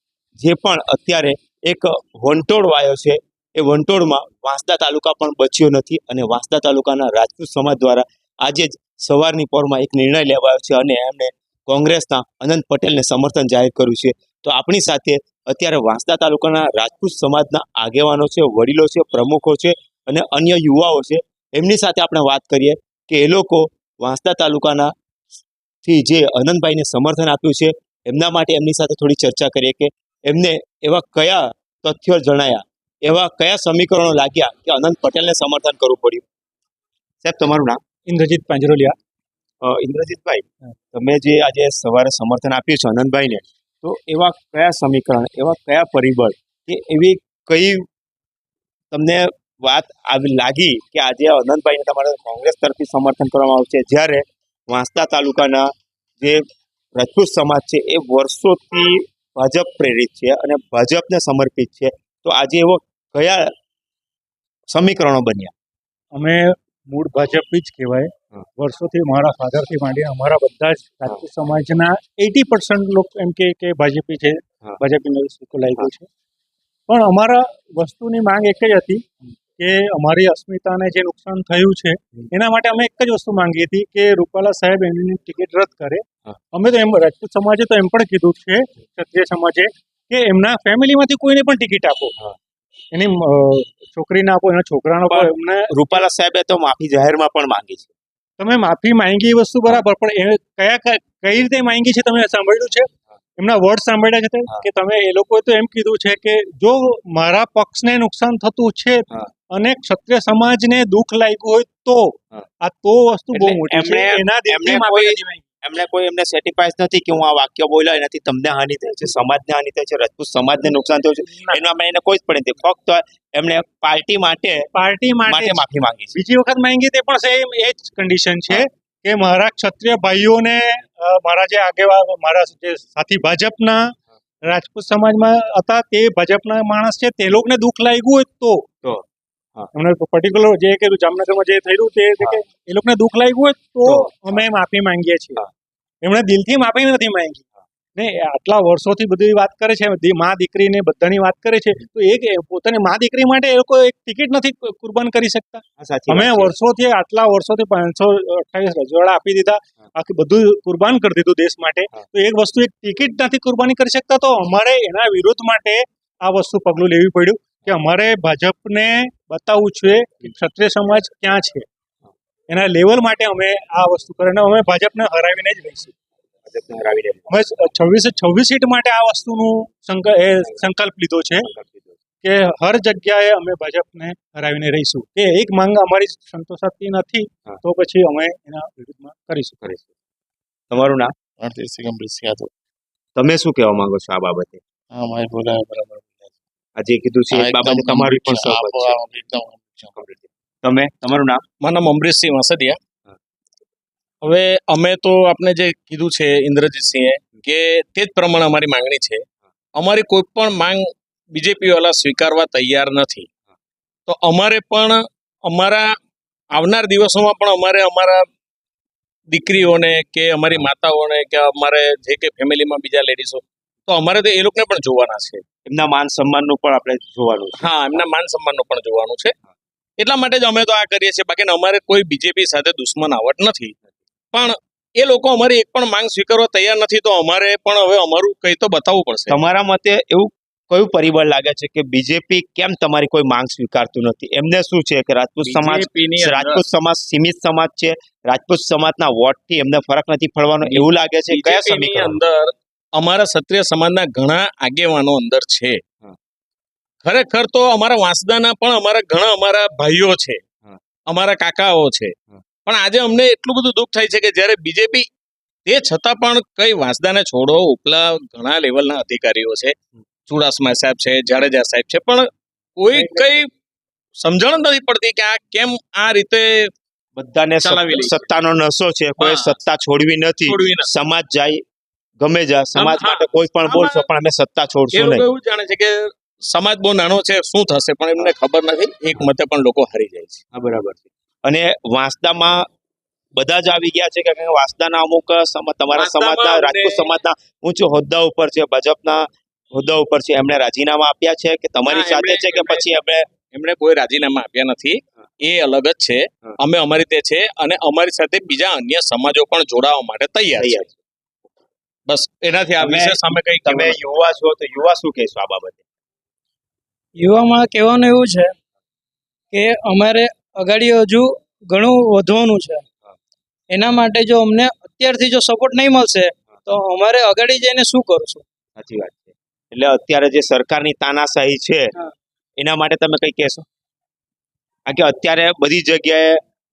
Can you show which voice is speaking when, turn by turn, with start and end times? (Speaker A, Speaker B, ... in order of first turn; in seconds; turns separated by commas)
Speaker A: 0.4-24.9, Speaker A: 25.8-36.2, Speaker A: 37.2-37.8, Speaker B: 38.1-38.9, Speaker A: 39.6-47.9, Speaker A: 48.9-55.7, Speaker A: 56.9-63.5, Speaker A: 64.7-65.5, Speaker B: 66.1-76.1, Speaker B: 76.9-92.1, Speaker B: 92.9-95.9, Speaker A: 95.1-97.9, Speaker B: 98.4-115.4, Speaker A: 113.3-124.7, Speaker B: 121.3-121.6, Speaker B: 124.7-125.6, Speaker A: 125.3-126.1, Speaker B: 126.1-133.9, Speaker B: 134.4-138.6, Speaker B: 139.7-145.4, Speaker A: 143.8-144.4, Speaker B: 146.0-147.4, Speaker B: 147.9-171.7, Speaker A: 155.8-156.5, Speaker B: 172.5-175.9, Speaker A: 176.4-177.3, Speaker B: 177.3-181.5, Speaker A: 181.4-181.9, Speaker B: 182.2-189.6, Speaker A: 190.7-191.1, Speaker C: 191.4-192.5, Speaker A: 193.2-194.6, Speaker C: 194.9-196.3, Speaker A: 196.8-199.0, Speaker C: 197.3-200.0, Speaker A: 200.0-201.4, Speaker D: 201.6-202.8, Speaker D: 204.2-209.2, Speaker D: 209.8-213.3, Speaker D: 214.1-215.9, Speaker D: 216.6-218.2, Speaker D: 219.3-225.4, Speaker A: 225.7-227.7, Speaker D: 227.6-229.3, Speaker D: 230.0-233.8, Speaker D: 234.3-239.4, Speaker A: 239.3-252.2, Speaker D: 245.4-246.6, Speaker D: 250.6-255.8, Speaker D: 257.0-260.4, Speaker D: 261.1-265.1, Speaker D: 265.6-273.5, Speaker D: 274.2-276.7, Speaker A: 277.1-281.6, Speaker D: 277.6-278.2, Speaker D: 279.2-279.6, Speaker D: 280.4-280.9, Speaker A: 282.2-285.3, Speaker D: 282.7-284.1, Speaker D: 284.9-290.4, Speaker A: 290.5-292.6, Speaker A: 293.4-303.3, Speaker D: 295.9-297.1, Speaker D: 301.9-302.9, Speaker D: 303.5-310.8, Speaker A: 310.6-310.9, Speaker D: 312.1-314.0, Speaker A: 312.8-315.8, Speaker E: 317.2-318.5, Speaker E: 319.5-322.8, Speaker E: 323.7-328.4, Speaker A: 328.8-331.9, Speaker A: 332.6-333.6, Speaker A: 334.9-336.4